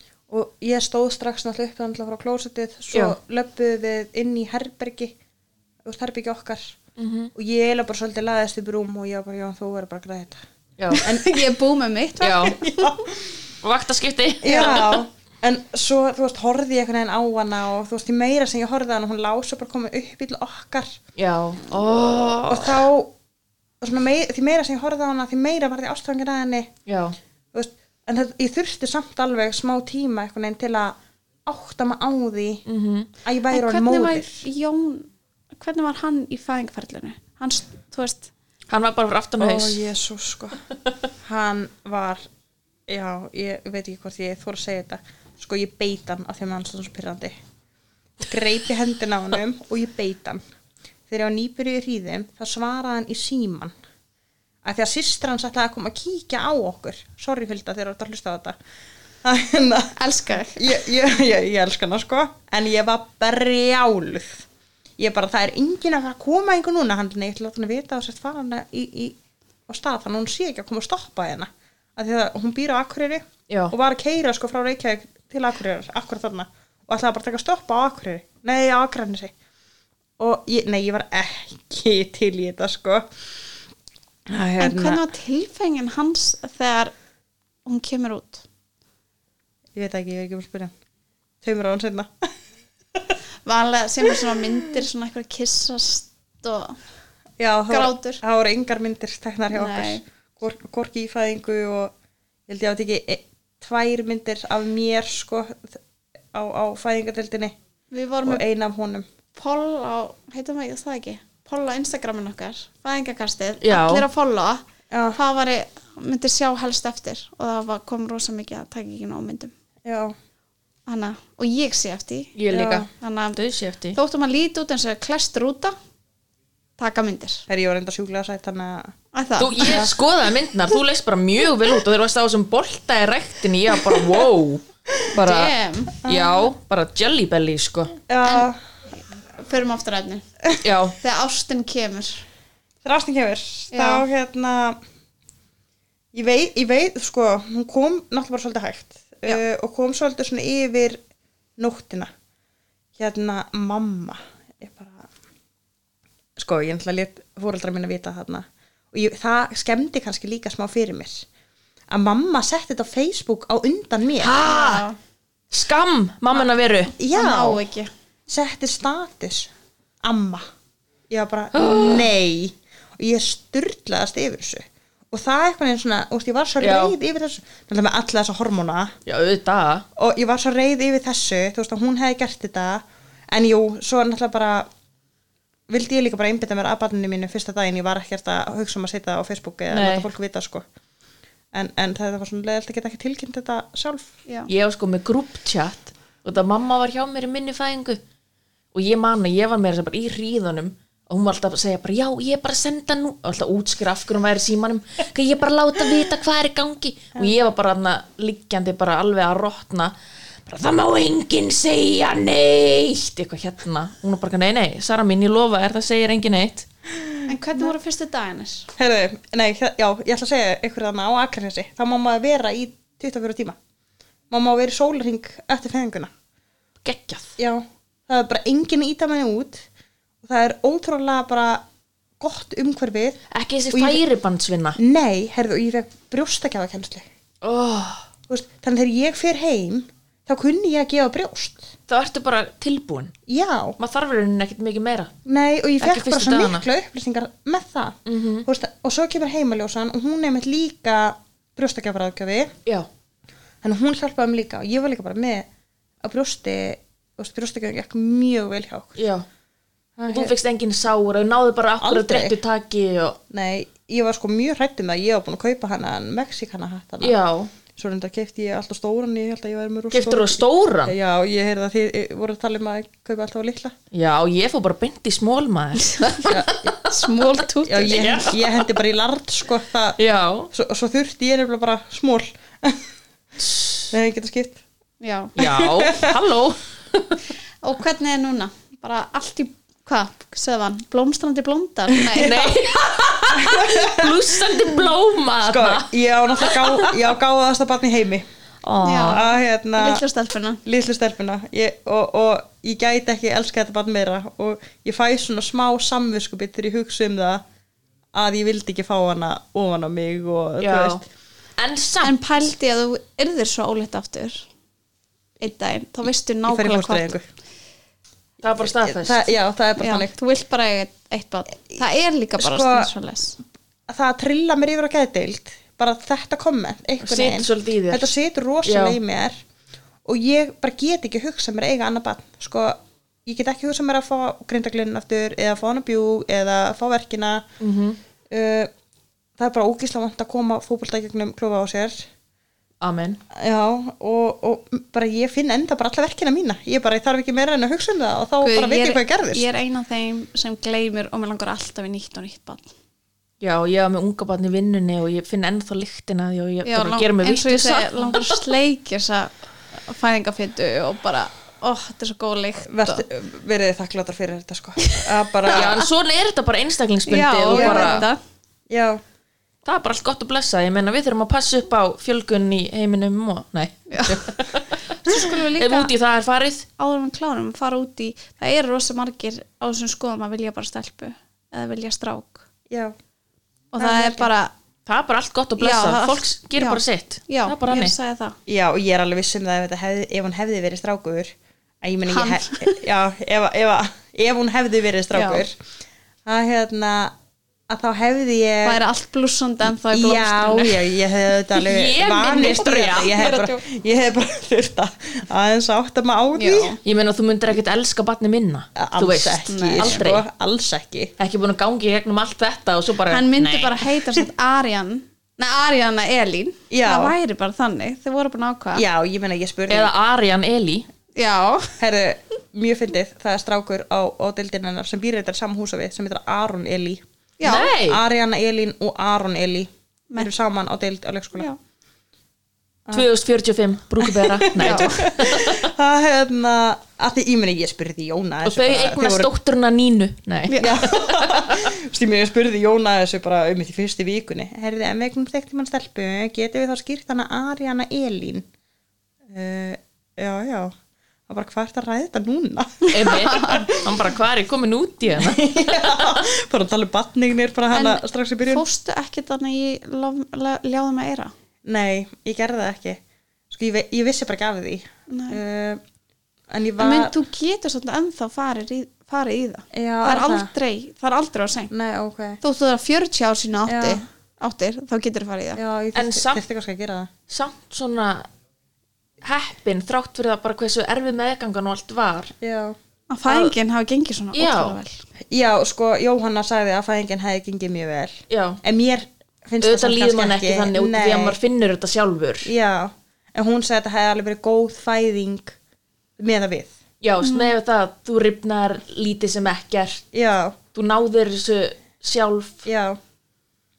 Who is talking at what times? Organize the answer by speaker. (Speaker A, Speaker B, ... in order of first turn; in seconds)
Speaker A: 0.3-5.2, 5.8-6.8, 7.3-10.4, 11.0-11.5, 12.4-13.3, 14.4-21.0, 22.1-23.1, 23.8-26.7, 27.5-32.6, 33.2-34.4, 39.4-40.6, 41.2-42.2, 42.9-47.4, 48.2-50.4, 51.1-53.7, 54.6-58.6, 59.2-60.0, 60.5-64.4, 65.0-69.2, 69.7-79.3, 80.2-83.1, 84.3-85.0, 89.7-90.7, 91.4-92.3, 97.4-101.9, 102.5-105.8, 106.3-107.5, 108.2-109.1, 114.9-115.2, 119.8-120.1, 122.5-122.9, 127.5-128.9, 129.6-129.9, 134.0-134.2, 136.0-136.5, 138.1-138.6, 142.8-144.8, 146.1-151.0, 151.6-152.1, 152.9-155.1, 156.4-161.2, 161.9-164.3, 167.0-167.6, 168.3-169.5, 170.0-170.4, 171.1-178.9, 179.9-184.7, 185.7-190.7, 191.5-194.1, 216.9-217.2, 218.8-223.6, 224.3-226.1, 227.4-229.7, 230.2-231.6, 232.2-233.2, 233.7-234.0, 234.8-237.1, 238.3-241.7, 243.3-243.8, 245.2-252.5, 253.6-255.5, 256.0-259.0, 260.0-260.3, 261.8-262.4, 263.3-267.1, 267.7-273.8, 276.3-276.8, 277.6-280.0, 280.5-282.9, 283.9-284.6, 285.4-286.2, 292.1-292.6, 293.3-294.9, 295.4-298.2, 299.0-300.0, 300.6-307.4, 308.1-311.0, 316.5-317.2, 318.6-320.1, 322.4-322.9, 323.9-329.4, 330.0-337.4, 338.3-338.7, 339.4-342.0, 343.3-349.4, 362.7-365.9, 367.5-368.1, 368.7-369.0, 382.7-382.9, 383.8-384.3, 388.5-395.6, 396.2-397.1, 397.7-398.8, 399.9-406.8, 408.8-411.1, 416.7-417.1, 418.7-419.9, 421.8-427.0, 427.8-431.5, 434.0-439.3, 440.6-448.4, 449.3-450.7, 451.3-454.0, 455.1-458.6, 461.6-465.8, 466.5-467.1, 469.7-470.5, 471.7-472.4, 473.6-474.0, 475.6-477.1, 482.4-482.8, 485.3-491.4, 492.4-495.6, 496.2-496.7, 500.1-500.6, 502.6-503.0
Speaker B: 7.0-7.3, 10.8-11.0, 12.2-12.6, 13.6-15.0, 21.1-22.9, 26.9-27.2, 32.7-33.1, 38.7-39.8, 73.5-73.7, 113.6-114.0, 122.3-124.0, 129.4-135.5, 136.0-138.0, 140.6-140.9, 164.2-164.8, 165.5-166.9, 171.5-172.1, 176.6-176.9, 179.1-179.8, 189.7-190.1, 194.5-198.0, 198.7-209.9, 210.4-216.7, 226.8-227.3, 233.3-234.8, 237.4-238.0, 241.9-243.1, 243.8-245.1, 245.8-246.6, 248.1-248.5, 259.0-259.2, 260.1-263.2, 267.0-267.5, 269.9-270.9, 273.9-276.6, 277.9-278.7, 280.0-280.5, 283.4-283.9, 285.4-287.2, 292.1-296.9, 298.6-299.2, 310.6-311.0, 311.6-312.2, 318.4-319.3, 327.0-329.0, 337.6-338.0, 342.8-343.2, 353.4-358.2, 365.5-368.0, 369.6-374.8, 375.6-376.7, 384.9-387.9, 401.6-403.4, 406.8-410.2, 411.2-413.8, 419.7-420.9, 427.4-428.0, 432.9-435.7, 438.4-441.7, 452.9-456.2, 475.9-476.4, 477.3-478.3, 479.2-482.3, 483.3-483.5, 484.3-484.8, 488.3-488.6, 489.6-492.5, 497.0-500.0, 500.7-502.6
Speaker C: 10.9-13.0, 33.5-38.3, 60.0-60.7, 84.6-86.9, 87.7-88.4, 93.5-96.8, 97.7-98.2, 99.5-100.0, 107.9-108.4, 109.3-114.6, 115.1-119.5, 120.9-122.3, 123.0-123.4, 123.9-125.7, 126.8-127.5, 129.1-129.9, 135.1-136.0, 139.4-140.2, 141.0-142.2, 143.7-144.0, 164.4-165.0, 167.0-167.9, 217.3-218.7, 276.8-278.1, 285.0-285.3, 287.6-292.5, 298.8-300.6, 312.0-314.5, 315.4-317.1, 319.8-323.4, 348.4-352.7, 356.6-363.0, 364.8-365.6, 367.1-368.2, 373.9-374.2, 375.0-375.9, 376.8-382.4, 383.7-384.5, 385.6-388.4, 392.1-392.8, 395.1-395.4, 398.6-400.9, 402.4-403.6, 406.3-406.8, 409.5-410.0, 413.1-418.8, 421.1-421.8, 427.4-427.8, 434.5-435.1, 440.5-440.8, 452.9-453.6, 457.7-461.3, 465.1-465.4, 466.8-471.7, 472.4-475.6, 483.1-485.0, 497.2-497.5